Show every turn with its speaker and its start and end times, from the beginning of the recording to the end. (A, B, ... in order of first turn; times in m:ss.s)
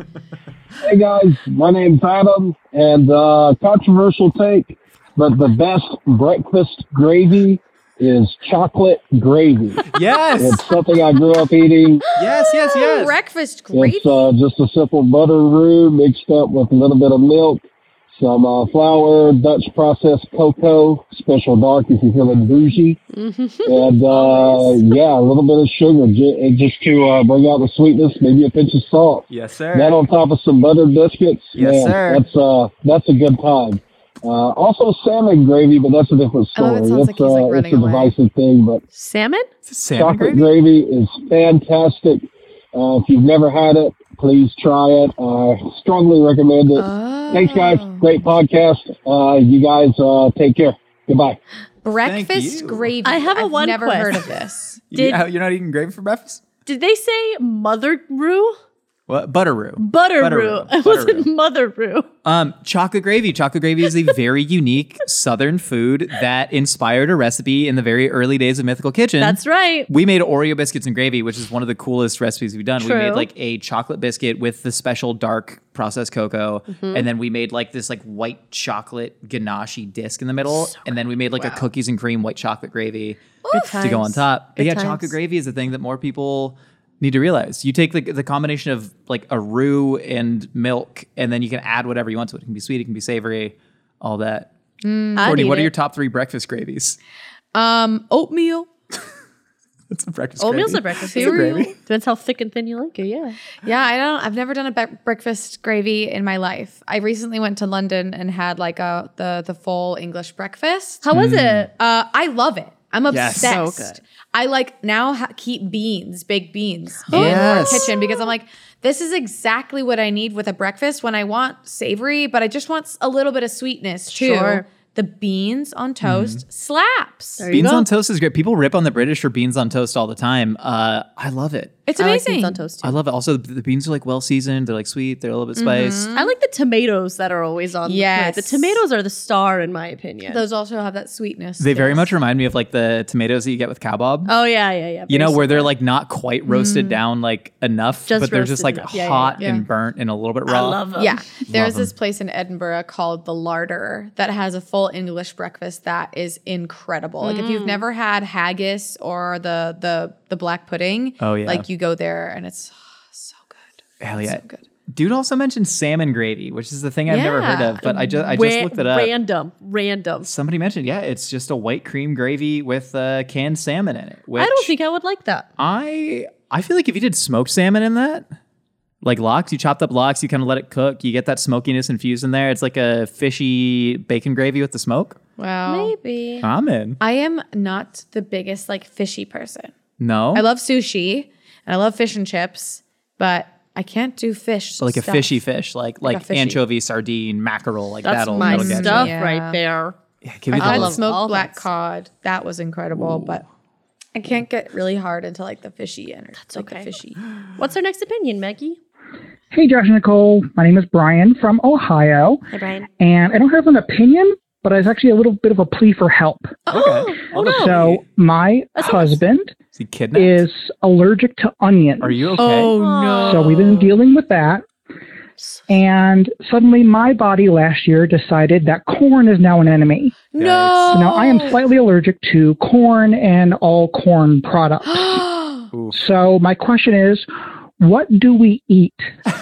0:00.8-0:09.9 A
0:09.9-0:10.6 B
0:10.4-0:12.1 A
0:12.2-0:13.1 B
0:12.5-0:14.3 C
0:13.7-0:23.0 A
0:23.1-0:25.0 D
0:23.6-0:38.8 A
0:29.3-0:30.0 B
0:31.6-0:32.2 B
0:36.6-0:38.1 C
0:39.0-0:39.5 D
0:39.7-0:40.5 B
0:39.9-0:51.4 A
0:46.8-0:48.1 C
0:51.8-0:54.8 C
0:52.0-0:52.9 B
0:53.0-0:54.3 D
0:54.9-0:56.4 B
0:54.9-0:55.2 D
0:56.7-0:58.6 D
0:59.1-1:01.3 B
0:59.8-1:02.1 D
1:02.2-1:23.2 B
1:09.2-1:09.9 D
1:12.8-1:13.3 D
1:16.7-1:17.1 D
1:20.6-1:20.9 D
1:23.4-1:24.0 C
1:23.5-1:25.0 D
1:23.8-1:34.5 B
1:34.8-1:35.4 C
1:35.2-1:35.7 D
1:35.2-1:37.0 B
1:37.5-1:38.7 C
1:39.9-1:41.7 B
1:40.4-1:43.4 D
1:41.1-1:41.7 C
1:43.6-1:51.0 C
1:51.0-1:51.7 D
1:51.1-1:51.7 B
1:51.8-2:07.5 C
1:53.1-1:53.6 B
1:53.4-1:54.0 D
1:57.1-1:58.0 D
1:57.1-1:57.9 B
2:04.1-2:04.7 D
2:06.0-2:06.4 B
2:07.4-2:07.9 D
2:07.5-2:11.8 B
2:11.9-2:12.6 C
2:12.0-2:13.0 D
2:12.8-2:16.0 B
2:15.6-2:16.3 C
2:16.1-2:20.4 D
2:17.8-2:18.8 C
2:20.3-2:22.1 C
2:21.6-2:24.3 B
2:24.3-2:25.7 D
2:25.1-2:30.8 B
2:26.5-2:27.0 C
2:28.1-2:29.4 D
2:29.4-2:29.6 C
2:30.4-2:31.2 D
2:31.0-2:44.6 C
2:31.5-2:31.9 B
2:37.2-2:37.8 D
2:41.2-2:41.6 B
2:44.0-2:49.1 B
2:47.1-2:48.4 C
2:48.3-2:50.3 D
2:50.2-2:54.7 B
2:54.4-2:55.5 D
2:55.6-2:58.3 B
2:59.0-3:05.2 B
3:05.4-3:06.0 C
3:05.7-3:06.5 D
3:06.4-3:07.0 B
3:07.0-3:09.7 C
3:10.0-3:10.4 B
3:10.3-3:15.4 C
3:14.8-3:19.1 B
3:16.0-3:16.6 C
3:18.0-3:20.0 D
3:18.4-3:19.6 C
3:20.2-3:21.0 B
3:20.5-3:23.4 C
3:20.6-3:21.7 D
3:24.1-3:27.2 C
3:26.4-3:26.9 D
3:27.6-3:28.8 D
3:29.5-3:32.4 E
3:32.5-3:32.9 D
3:33.0-3:36.6 E
3:36.7-3:36.9 C
3:36.7-3:37.9 D
3:36.7-3:38.0 B
3:37.4-3:39.6 E
3:38.8-3:39.2 D
3:39.7-3:40.4 B
3:40.1-3:42.3 E
3:42.0-3:42.7 B
3:42.4-3:43.9 C
3:42.7-3:43.9 D
3:43.2-3:44.6 E
3:45.4-3:45.6 D
3:45.7-3:50.3 E
3:50.3-3:51.6 C
3:50.4-3:50.9 B
3:50.9-3:55.2 E
3:54.8-3:55.7 C
3:55.9-3:57.3 E
3:57.8-3:59.1 E